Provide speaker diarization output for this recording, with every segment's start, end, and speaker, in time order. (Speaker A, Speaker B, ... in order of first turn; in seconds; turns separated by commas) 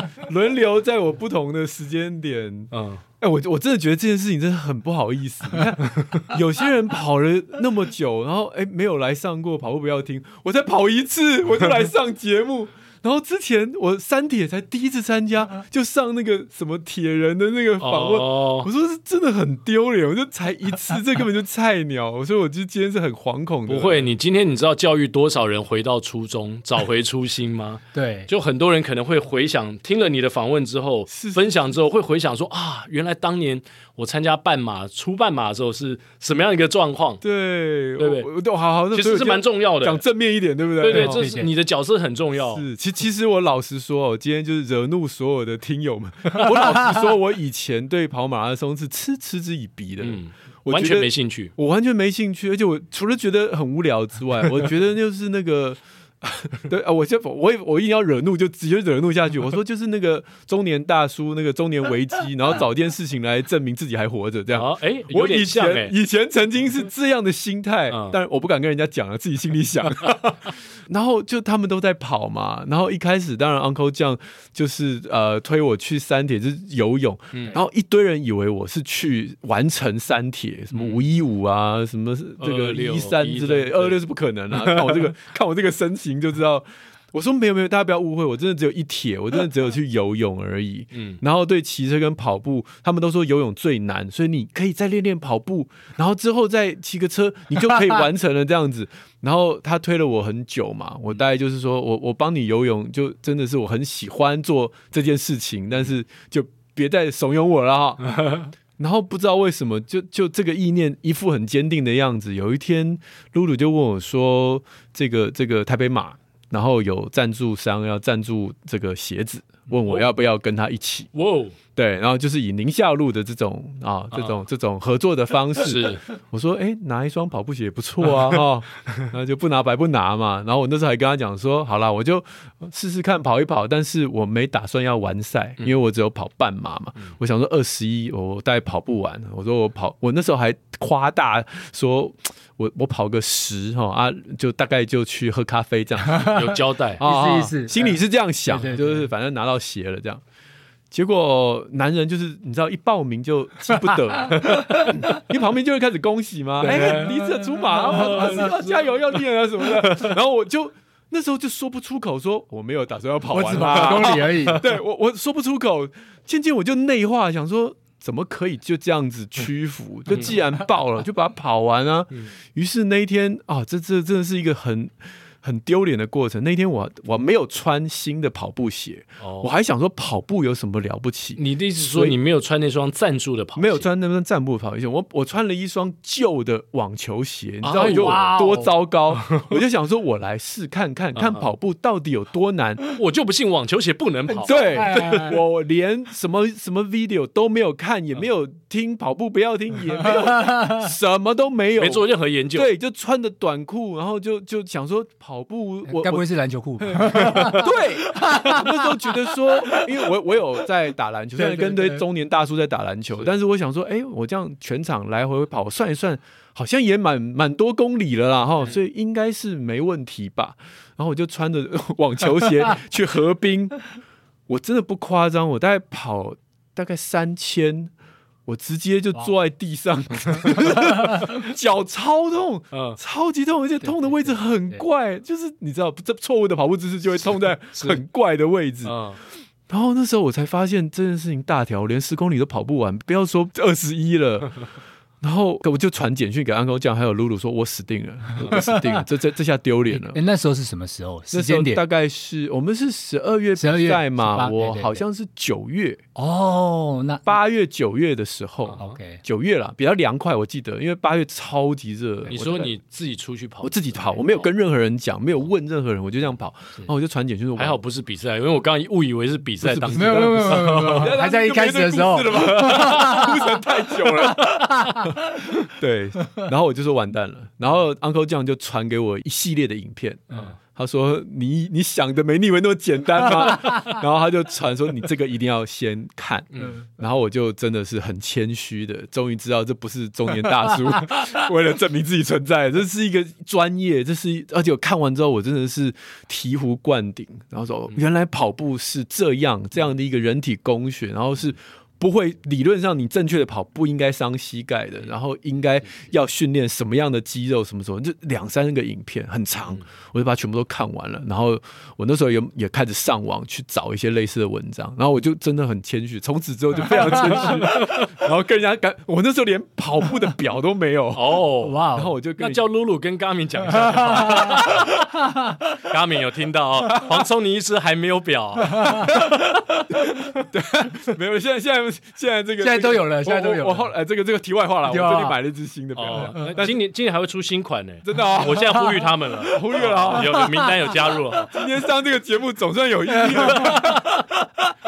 Speaker A: 0.2-24.1, Speaker B: 2.7-3.0, Speaker B: 6.0-6.2, Speaker B: 17.8-18.7, Speaker B: 23.7-37.2, Speaker C: 27.9-28.3, Speaker A: 31.1-31.6, Speaker A: 37.2-41.3, Speaker B: 38.0-38.3, Speaker B: 38.9-40.0, Speaker B: 40.8-42.6, Speaker C: 40.9-41.5, Speaker A: 42.4-121.1, Speaker B: 50.0-51.5, Speaker B: 64.5-65.9, Speaker B: 67.9-68.2, Speaker B: 77.3-77.6, Speaker B: 80.7-81.0, Speaker B: 82.4-84.0, Speaker B: 84.5-85.1, Speaker B: 90.9-91.2, Speaker B: 108.1-108.4, Speaker B: 121.1-121.6, Speaker A: 121.7-146.4, Speaker B: 125.6-126.0, Speaker C: 146.1-146.4, Speaker B: 146.2-147.0, Speaker C: 147.0-149.1, Speaker A: 147.0-150.2, Speaker A: 150.9-182.2, Speaker B: 154.3-154.8, Speaker B: 156.6-157.2, Speaker C: 156.7-158.5, Speaker B: 157.7-159.2, Speaker B: 159.8-160.2, Speaker C: 163.3-164.6, Speaker B: 179.2-179.5, Speaker B: 181.4-183.9, Speaker A: 183.6-192.8, Speaker B: 187.6-188.4, Speaker C: 187.8-188.7, Speaker B: 189.2-189.5, Speaker B: 191.2-191.5, Speaker B: 193.0-195.3, Speaker C: 194.3-195.4, Speaker A: 194.5-206.2, Speaker C: 200.0-200.9, Speaker B: 201.8-202.7, Speaker C: 205.8-209.1, Speaker A: 206.8-223.8, Speaker B: 207.1-208.6, Speaker C: 211.3-212.0, Speaker A: 224.5-227.9, Speaker A: 228.4-239.0, Speaker B: 232.7-233.0, Speaker C: 233.8-234.8, Speaker B: 237.7-238.0, Speaker B: 238.8-239.2, Speaker A: 239.7-244.7, Speaker A: 245.2-250.2, Speaker C: 248.4-249.0, Speaker C: 249.9-251.8, Speaker A: 251.3-256.0, Speaker C: 253.6-255.0, Speaker C: 256.1-257.4, Speaker A: 257.2-262.7, Speaker B: 258.6-258.9, Speaker C: 258.8-259.2, Speaker B: 262.3-264.2, Speaker A: 263.6-267.8, Speaker B: 267.6-271.1, Speaker A: 269.6-321.4, Speaker C: 269.9-275.5, Speaker B: 286.5-286.8, Speaker C: 317.0-317.5, Speaker B: 317.1-318.1, Speaker B: 321.1-321.8, Speaker C: 321.6-322.1, Speaker A: 321.9-322.6, Speaker B: 322.4-324.9, Speaker C: 323.7-325.8, Speaker B: 325.8-329.2, Speaker A: 326.9-327.2, Speaker C: 328.7-329.1, Speaker A: 329.9-336.8, Speaker C: 332.6-333.9, Speaker C: 334.9-335.4, Speaker B: 335.9-341.5, Speaker A: 338.0-338.9, Speaker C: 338.6-339.0, Speaker A: 339.4-340.7, Speaker C: 340.1-340.7, Speaker A: 341.5-344.4, Speaker C: 343.2-343.8, Speaker B: 343.6-343.8